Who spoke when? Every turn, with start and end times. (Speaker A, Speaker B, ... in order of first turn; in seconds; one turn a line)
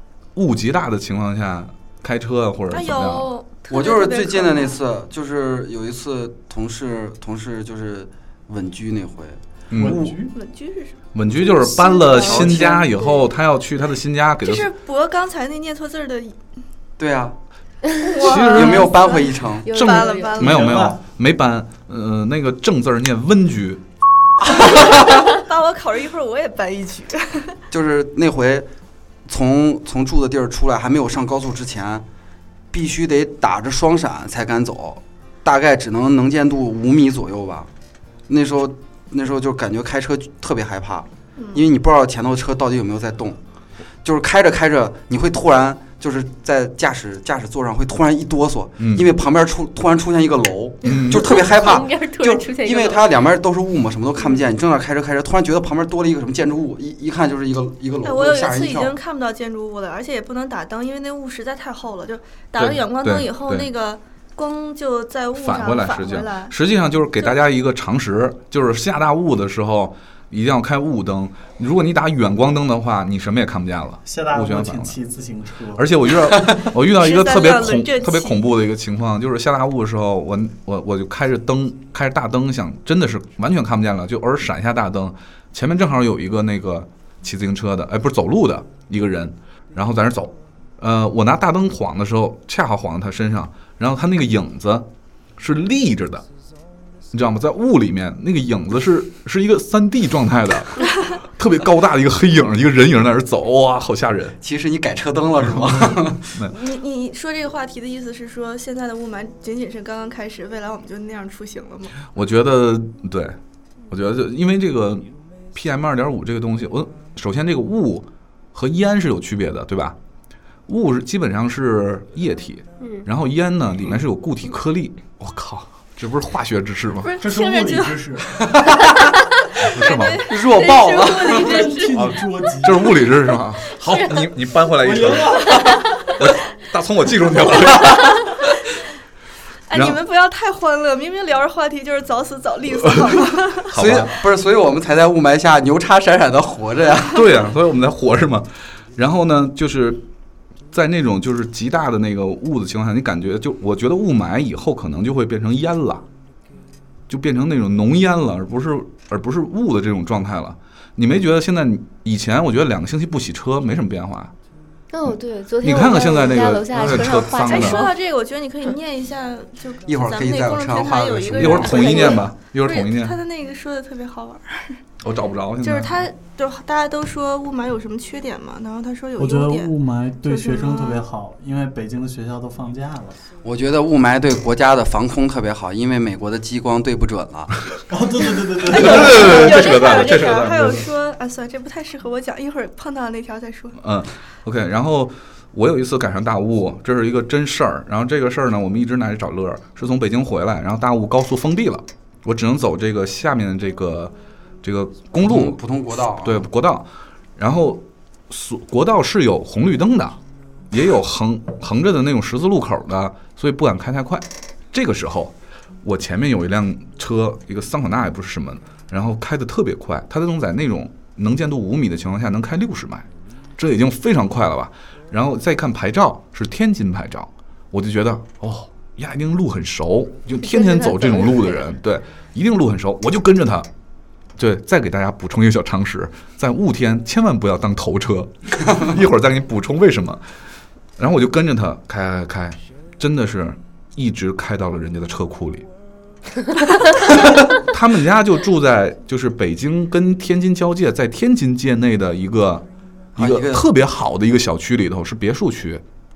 Speaker A: 0.3-3.3
Speaker B: 2.7-4.8
Speaker C: 3.7-9.4
Speaker A: 9.7-10.2
Speaker D: 9.7-10.3
Speaker B: 10.3-11.0
Speaker A: 11.1-14.7
Speaker E: 11.3-12.7
Speaker C: 12.1-12.9
Speaker B: 14.4-16.4
Speaker C: 17.0-17.4
Speaker B: 18.0-20.6
Speaker A: 18.2-18.9
Speaker E: 18.4-20.4
Speaker C: 18.5-19.7
Speaker A: 19.7-23.8
Speaker D: 20.4-21.0
Speaker B: 24.5-27.6
Speaker C: 27.7-28.7
Speaker C: 29.3-32.0
Speaker C: 32.7-37.7
Speaker C: 38.3-43.4
Speaker B: 41.4-41.6
Speaker C: 44.0-59.0
Speaker A: 48.8-49.1
Speaker A: 50.9-51.4
Speaker E: 51.1-53.0
Speaker B: 58.0-66.6
Speaker A: 62.6-63.7
Speaker A: 65.3-75.0
Speaker D: 74.0-75.9
Speaker A: 75.8-96.3
Speaker B: 76.9-78.5
Speaker A: 97.1-104.4
Speaker C: 104.4-106.4
Speaker A: 105.6-106.5
Speaker B: 106.5-112.0
Speaker A: 112.1-113.4
Speaker A: 113.9-120.0
Speaker A: 120.7-127.1
Speaker E: 122.8-123.0
Speaker B: 127.0-128.2
Speaker D: 127.2-128.4
Speaker C: 128.4-129.0
Speaker B: 128.8-132.2
Speaker A: 129.6-130.3
Speaker C: 130.3-131.7
Speaker D: 131.4-133.0
Speaker A: 131.9-138.5
Speaker D: 134.8-135.8
Speaker B: 139.7-143.7
Speaker A: 139.7-140.0
Speaker A: 142.7-143.0
Speaker A: 143.7-144.1
Speaker C: 143.7-147.3
Speaker A: 147.1-150.0
Speaker A: 150.7-156.1
Speaker A: 157.1-164.3
Speaker E: 164.9-167.9
Speaker A: 165.6-167.9
Speaker B: 166.8-174.8
Speaker C: 169.9-172.2
Speaker A: 171.3-173.2
Speaker A: 175.0-176.0
Speaker B: 175.6-179.7
Speaker D: 179.2-183.2
Speaker B: 180.3-181.0
Speaker C: 183.4-187.6
Speaker D: 187.9-189.5
Speaker B: 188.7-193.8
Speaker A: 188.7-190.9
Speaker A: 193.8-205.6
Speaker C: 205.2-206.5
Speaker A: 206.2-210.2
Speaker A: 210.7-233.7
Speaker E: 230.4-231.7
Speaker A: 234.4-240.2
Speaker A: 241.0-245.7
Speaker A: 247.0-252.7
Speaker C: 253.2-253.7
Speaker A: 253.2-255.8